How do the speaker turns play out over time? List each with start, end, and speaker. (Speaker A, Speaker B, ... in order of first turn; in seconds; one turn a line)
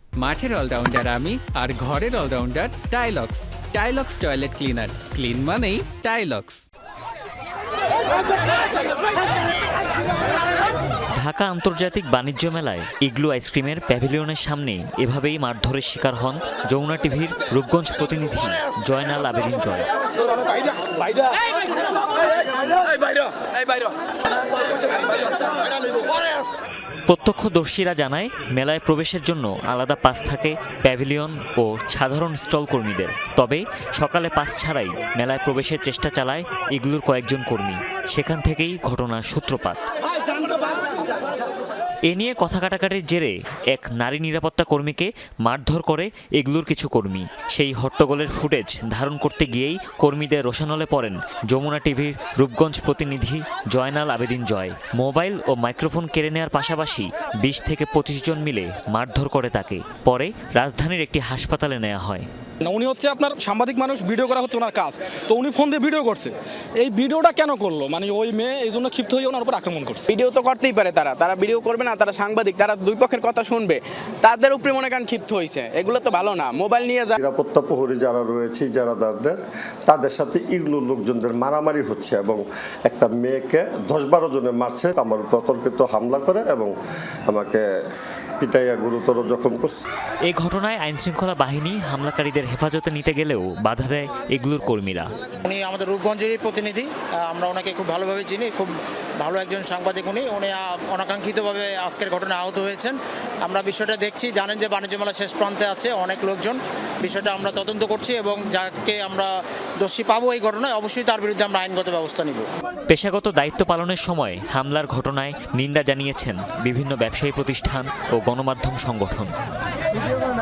Speaker A: 0.2-6.6
Speaker B: 11.2-19.9
Speaker B: 27.1-39.8
Speaker B: 42.1-62.3
Speaker C: 62.6-70.1
Speaker D: 70.1-77.1
Speaker E: 77.1-86.7
Speaker E: 87.3-87.6
Speaker E: 88.4-89.8
Speaker B: 90.3-95.1
Speaker F: 95.4-112.5
Speaker B: 112.9-119.3